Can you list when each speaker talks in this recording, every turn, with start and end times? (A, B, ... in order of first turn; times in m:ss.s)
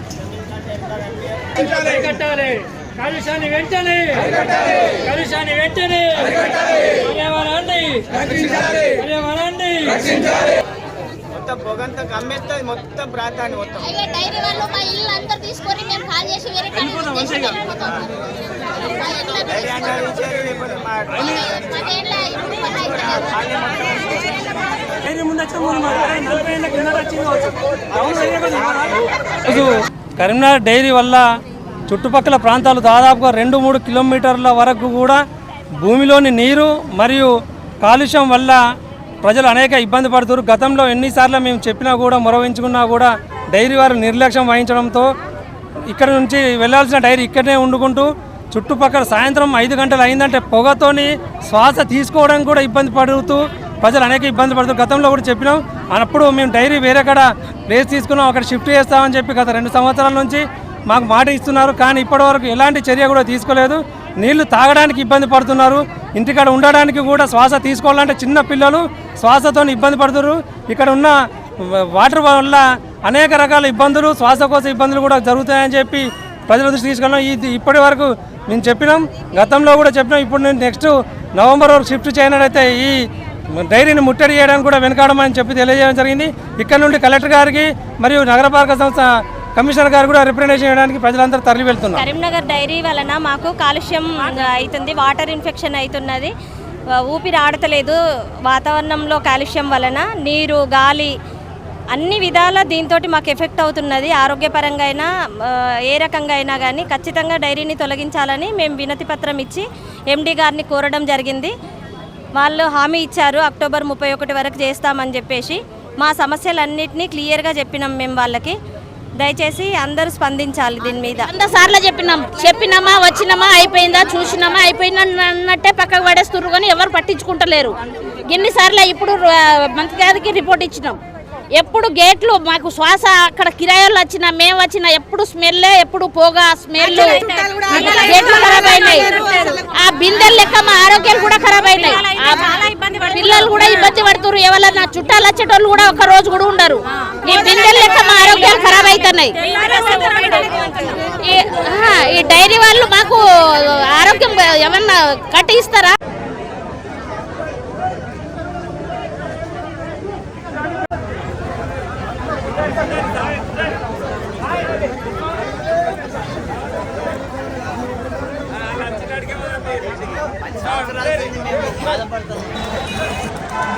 0:01.7-0:10.1 A
0:11.4-0:13.9 B
0:13.9-0:18.0 C
0:16.7-0:17.7 A
0:18.8-0:19.7 C
0:19.4-0:21.2 B
0:21.1-0:21.6 A
0:21.5-0:23.3 C
0:22.9-0:24.4 B
0:25.0-0:31.3 A
0:31.9-0:35.2 A
0:35.8-0:38.6 A
0:39.2-0:45.1 A
0:45.9-1:23.0 A
1:23.6-1:32.0 A
1:31.9-1:36.3 D
1:37.0-1:41.1 D
1:41.9-1:51.5 D
1:52.4-1:58.6 D
1:59.2-2:01.3 D
2:01.3-2:11.0 E
2:11.6-2:29.4 E
2:17.0-2:19.6 D
2:21.8-2:23.8 D
2:28.5-2:31.1 D
2:31.2-2:36.0 E